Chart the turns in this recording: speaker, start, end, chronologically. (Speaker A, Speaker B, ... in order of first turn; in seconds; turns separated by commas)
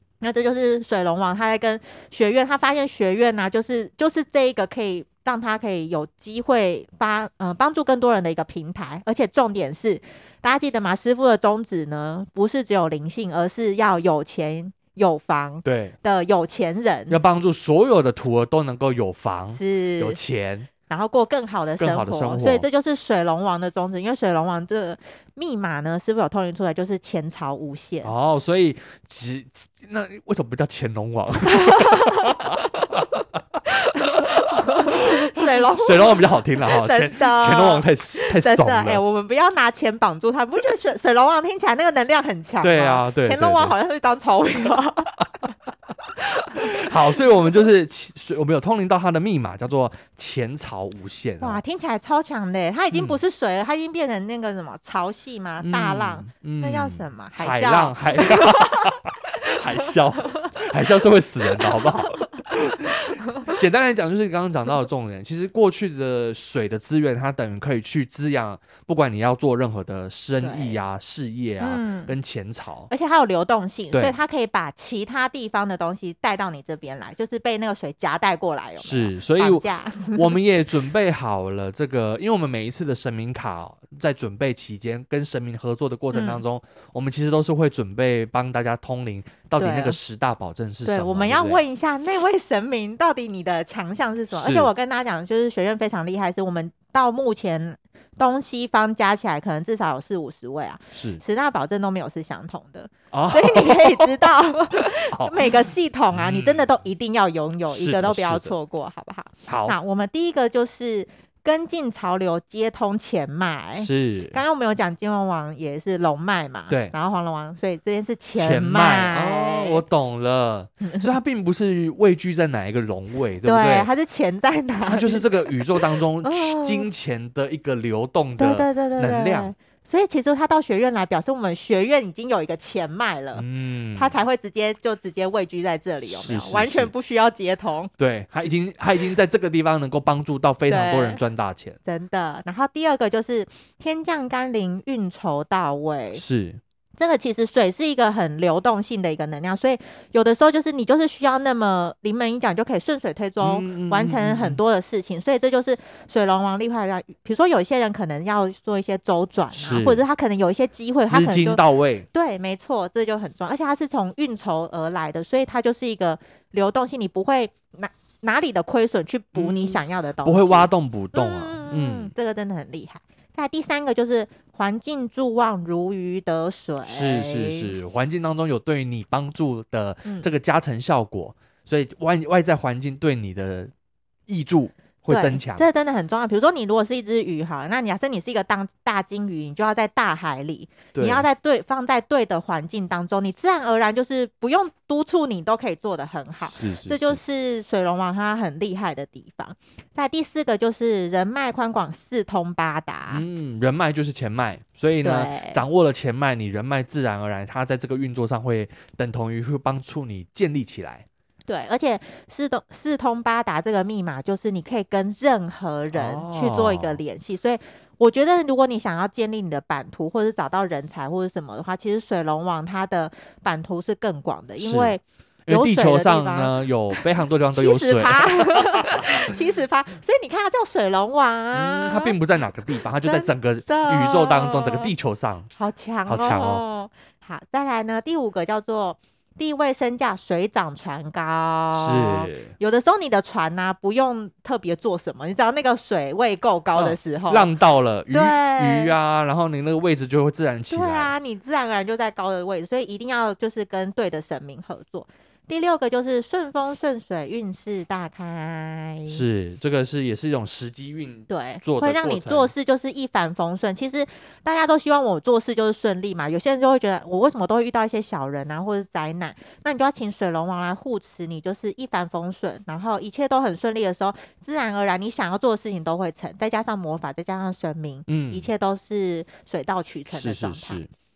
Speaker A: 0.2-17.2, Speaker B: 15.7-16.0, Speaker B: 17.1-20.7, Speaker A: 19.5-20.2, Speaker A: 20.9-28.1, Speaker B: 21.8-22.7, Speaker B: 28.0-39.0, Speaker A: 31.5-32.4, Speaker A: 33.9-45.3, Speaker B: 42.6-43.8, Speaker A: 46.3-46.9, Speaker B: 46.5-51.6, Speaker A: 51.4-58.9, Speaker B: 52.9-53.2, Speaker B: 55.6-72.9, Speaker A: 59.9-60.5, Speaker A: 63.2-63.5, Speaker A: 70.4-70.8, Speaker A: 71.6-72.1, Speaker A: 72.9-80.4, Speaker B: 78.8-91.6, Speaker A: 86.1-86.4, Speaker A: 89.6-90.0, Speaker A: 90.8-119.8, Speaker B: 94.3-94.7, Speaker B: 100.9-101.2, Speaker B: 103.1-104.1, Speaker B: 105.1-106.7, Speaker B: 107.7-108.5, Speaker B: 109.5-109.8, Speaker B: 113.8-114.4, Speaker B: 116.7-116.9, Speaker B: 118.4-123.9, Speaker A: 120.8-121.1, Speaker A: 123.5-126.9, Speaker B: 124.9-129.5, Speaker A: 128.4-137.9, Speaker B: 133.4-134.2, Speaker B: 136.1-136.9, Speaker B: 138.0-141.8, Speaker A: 140.7-141.2, Speaker A: 141.8-146.2, Speaker B: 146.2-146.6, Speaker A: 147.0-177.8, Speaker B: 153.4-154.6, Speaker B: 159.5-160.0, Speaker B: 161.1-162.1, Speaker B: 169.3-172.1, Speaker B: 176.9-183.7, Speaker A: 180.1-180.3, Speaker B: 184.3-185.7, Speaker A: 185.1-203.2, Speaker B: 190.9-191.3, Speaker B: 196.5-197.2, Speaker B: 203.1-211.1, Speaker A: 205.0-205.6, Speaker A: 211.5-232.2, Speaker B: 215.9-217.0, Speaker B: 224.6-229.3, Speaker B: 231.5-235.5, Speaker A: 233.0-234.9, Speaker A: 235.6-247.5, Speaker B: 236.1-236.6, Speaker B: 241.7-242.5, Speaker B: 246.7-251.1, Speaker A: 248.1-249.0, Speaker A: 250.7-259.2, Speaker B: 259.1-262.5, Speaker A: 261.3-280.8, Speaker B: 278.1-278.5, Speaker B: 280.1-280.9